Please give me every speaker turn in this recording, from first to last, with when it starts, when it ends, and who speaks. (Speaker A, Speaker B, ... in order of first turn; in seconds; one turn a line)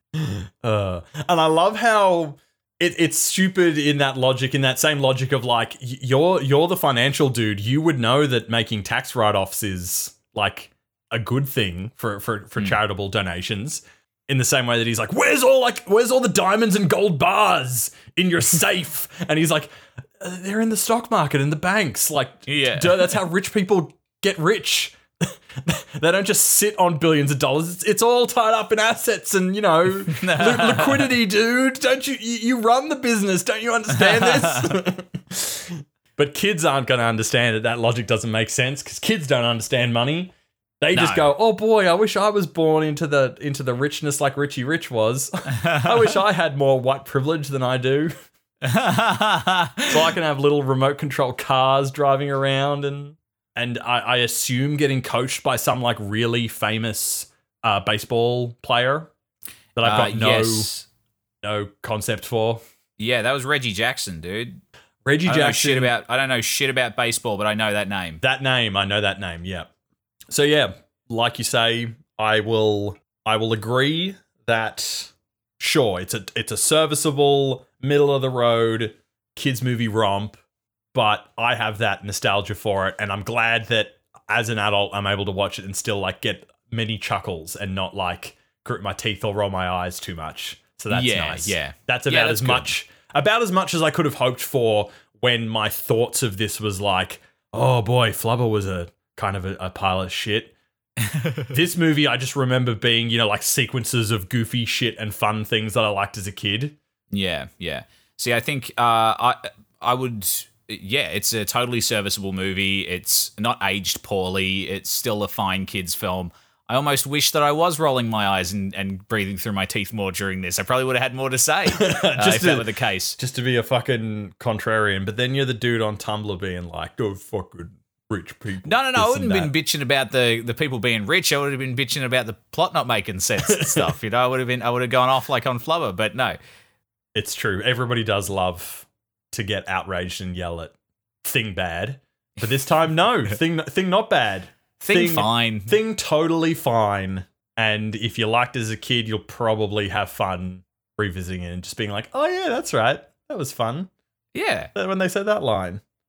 Speaker A: 0.1-48.1
Speaker B: 22.5-23.2
Speaker B: 30.1-31.1
Speaker B: 34.0-34.7
Speaker B: 40.9-41.3
Speaker B: 48.6-49.9
Speaker A: 49.9-59.1
Speaker A: 59.8-60.7
Speaker B: 59.8-60.9
Speaker A: 61.4-62.6
Speaker B: 63.0-64.6
Speaker A: 65.0-65.9
Speaker B: 65.2-68.2
Speaker A: 68.2-69.7
Speaker A: 70.3-80.4
Speaker A: 80.9-100.5
Speaker B: 90.9-92.7
Speaker B: 101.0-101.5
Speaker A: 101.5-106.8
Speaker B: 107.1-123.2
Speaker A: 121.7-129.5
Speaker B: 128.6-136.4
Speaker A: 133.5-133.9
Speaker A: 137.1-153.9
Speaker B: 144.8-145.8
Speaker B: 154.3-154.7
Speaker A: 154.7-155.8